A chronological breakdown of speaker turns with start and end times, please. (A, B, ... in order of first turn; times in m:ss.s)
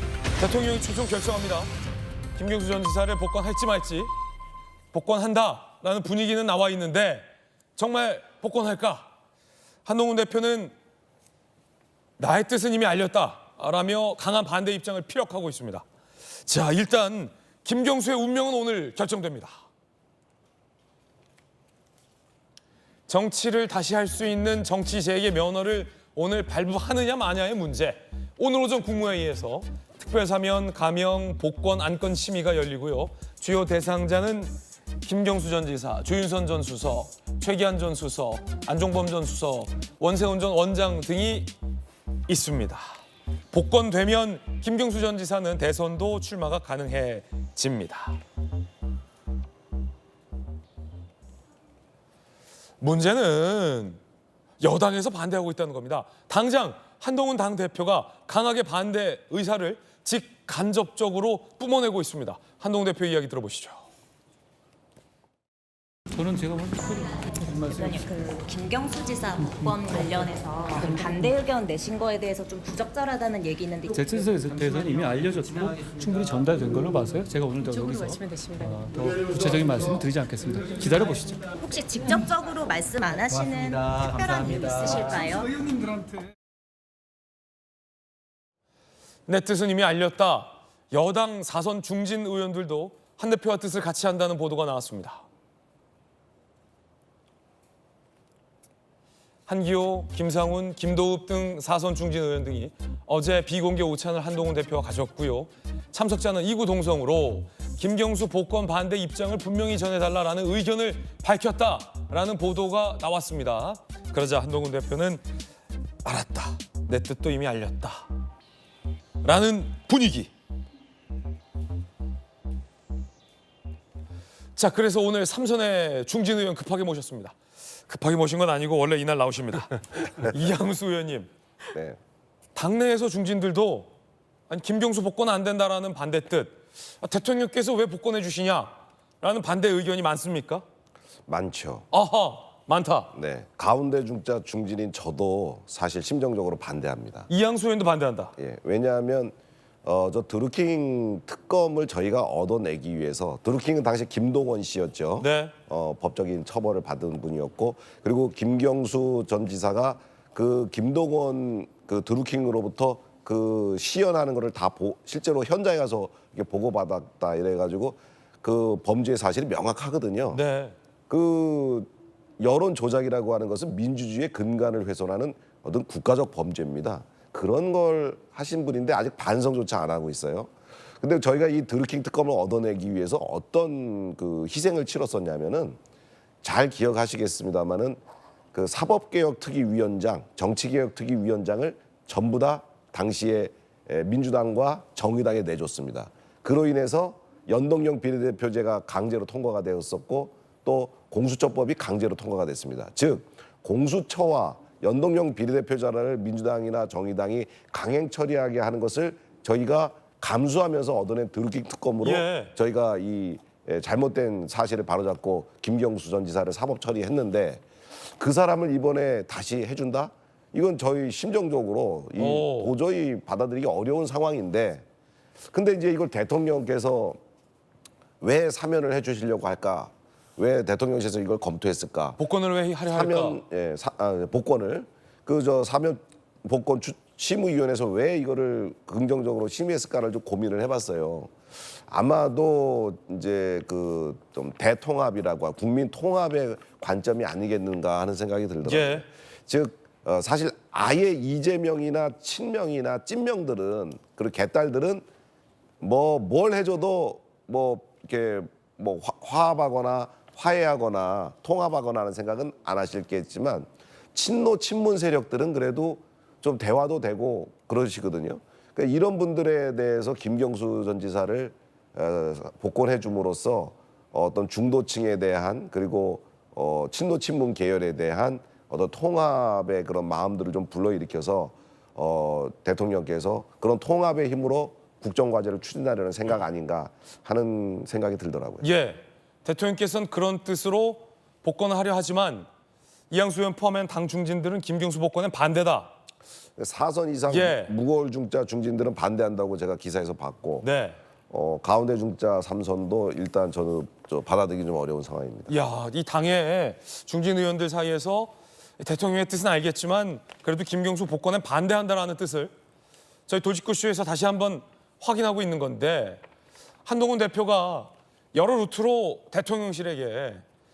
0:00.4-0:01.7 A
0:02.3-0:04.1 A
0:04.9-0:09.1 A
0:09.8-0:10.7 A
0:12.2-0:15.8 A
0:16.4-0:19.6 A
0:23.1-0:41.5 A
0:42.3-0:42.8 A
0:43.5-0:48.2 A
0:52.8-0:54.0 A
0:54.6-1:03.8 A
1:06.1-1:08.0 B
1:07.7-1:14.1 C
1:13.9-1:21.5 B
1:21.6-1:25.5 C
1:29.3-1:35.2 A
1:39.5-1:55.2 A
1:56.0-1:58.1 A
1:59.2-2:00.3 A
2:04.6-2:07.4 A
2:07.9-2:11.3 A
2:11.7-2:12.0 D
2:12.5-2:13.9 A
2:14.5-2:20.6 A
2:21.3-2:21.9 D
2:21.9-2:23.1 A
2:23.1-2:27.3 D
2:27.3-2:28.3 A
2:28.4-2:50.4 D
2:35.2-2:35.5 A
2:50.3-2:50.8 A
2:51.1-2:51.9 D
2:52.4-3:05.8 D
3:06.4-3:08.0 D
3:08.5-3:44.8 D
3:32.0-3:32.5 A
3:42.2-3:42.7 A
3:45.5-3:47.2 D
3:48.2-3:52.2 D
3:52.2-3:53.4 A
3:52.9-4:01.3 D
4:01.9-4:15.0 D
4:08.6-4:09.1 A
4:15.8-4:48.7 D
4:48.6-4:52.5 A
4:53.1-4:55.9 A
4:56.6-5:00.6 D
4:57.3-4:57.7 A
5:00.6-5:01.0 A
5:01.3-5:05.5 D
5:05.5-5:12.5 A
5:13.3-5:16.2 A
5:16.8-5:20.4 A